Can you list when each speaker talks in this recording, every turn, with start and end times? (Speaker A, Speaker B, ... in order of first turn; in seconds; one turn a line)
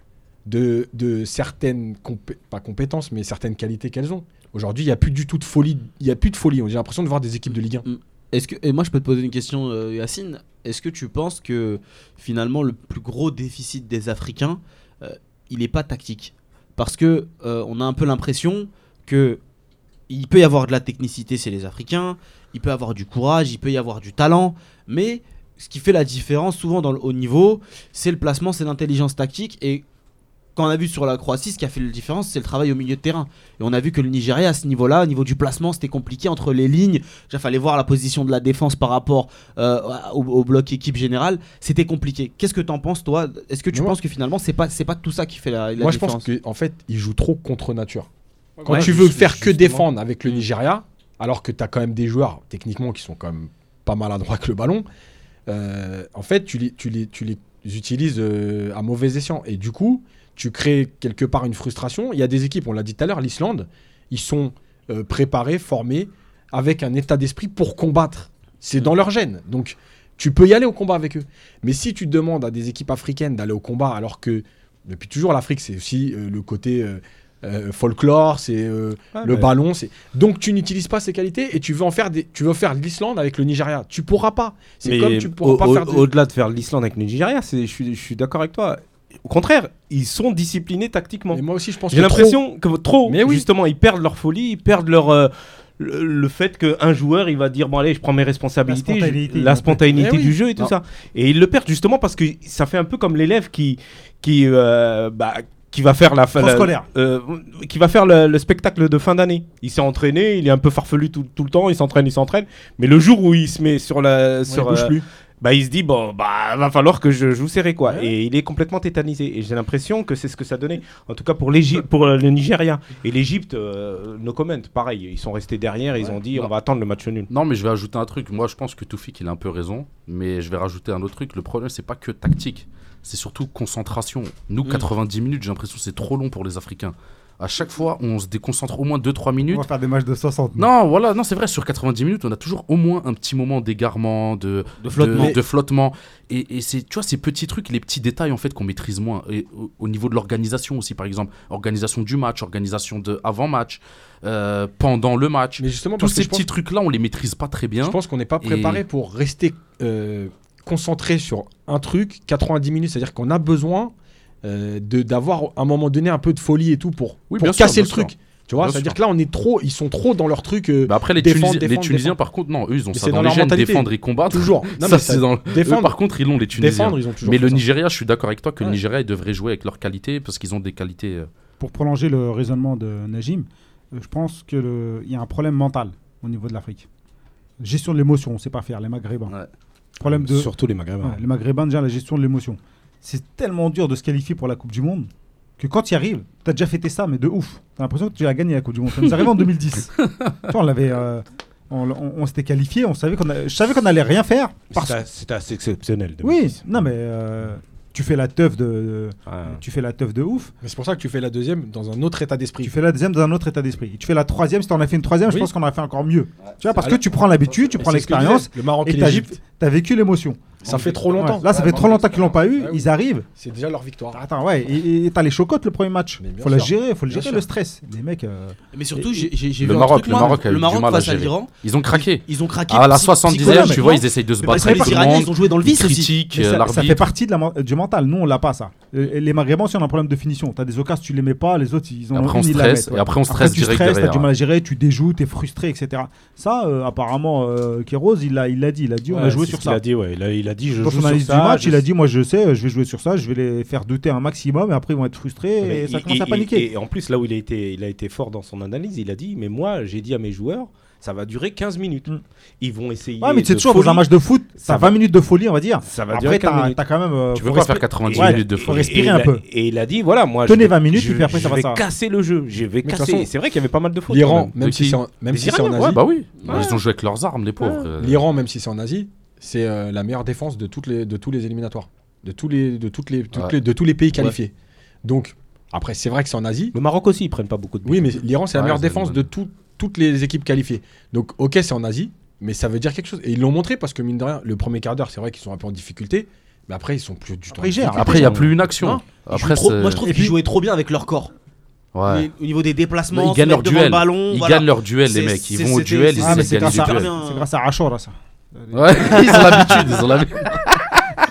Speaker A: 0.5-7.8
Speaker B: 7.8-19.4
Speaker B: 20.1-29.8
Speaker B: 30.6-46.3
Speaker A: 45.8-48.1
Speaker A: 48.6-54.9
Speaker C: 48.6-49.9
Speaker A: 55.5-86.1
Speaker C: 79.2-79.5
Speaker C: 84.8-127.3
Speaker A: 91.3-92.4
Speaker A: 93.0-93.5
Speaker D: 98.7-100.1
Speaker A: 100.0-100.7
Speaker D: 106.3-106.9
Speaker A: 114.5-115.0
Speaker A: 117.9-118.1
Speaker E: 127.3-139.6
Speaker D: 139.5-140.7
Speaker E: 140.6-158.8
Speaker B: 144.8-145.3
Speaker A: 155.6-156.5
Speaker A: 157.8-172.2
Speaker E: 167.3-169.0
Speaker E: 170.8-181.3
Speaker A: 172.9-175.9
Speaker A: 176.5-177.6
Speaker D: 181.6-186.9
Speaker D: 187.6-189.3
Speaker D: 190.0-205.0
Speaker C: 190.0-191.2
Speaker C: 204.7-206.6
Speaker D: 206.2-210.5
Speaker C: 209.3-209.6
Speaker A: 210.6-212.7
Speaker D: 212.6-223.3
Speaker A: 217.8-219.4
Speaker A: 220.6-221.5
Speaker E: 220.7-222.3
Speaker A: 222.5-224.2
Speaker D: 224.1-229.3
Speaker A: 226.2-227.4
Speaker B: 228.7-236.1
Speaker E: 229.6-237.1
Speaker D: 233.3-235.2
Speaker D: 236.3-249.8
Speaker E: 242.1-244.3
Speaker C: 249.1-251.8
Speaker D: 250.8-256.7
Speaker C: 255.6-264.1
Speaker D: 263.2-269.4
Speaker C: 264.6-264.9
Speaker C: 265.8-266.8
Speaker E: 267.3-268.9
Speaker C: 268.1-274.5
Speaker D: 270.4-271.8
Speaker A: 272.8-273.3
Speaker A: 274.1-276.5
Speaker E: 274.6-275.0
Speaker C: 275.3-276.8
Speaker E: 275.7-278.2
Speaker C: 277.6-277.9
Speaker A: 278.0-284.5
Speaker A: 285.0-286.7
Speaker C: 286.7-288.2
Speaker A: 287.8-299.0
Speaker E: 288.5-289.2
Speaker D: 297.5-298.4
Speaker E: 297.9-300.1
Speaker B: 299.2-301.3
Speaker D: 300.0-300.4
Speaker E: 301.9-302.3
Speaker B: 302.1-307.5
Speaker E: 303.1-307.1
Speaker D: 306.2-310.0
Speaker E: 308.7-311.1
Speaker B: 309.1-309.9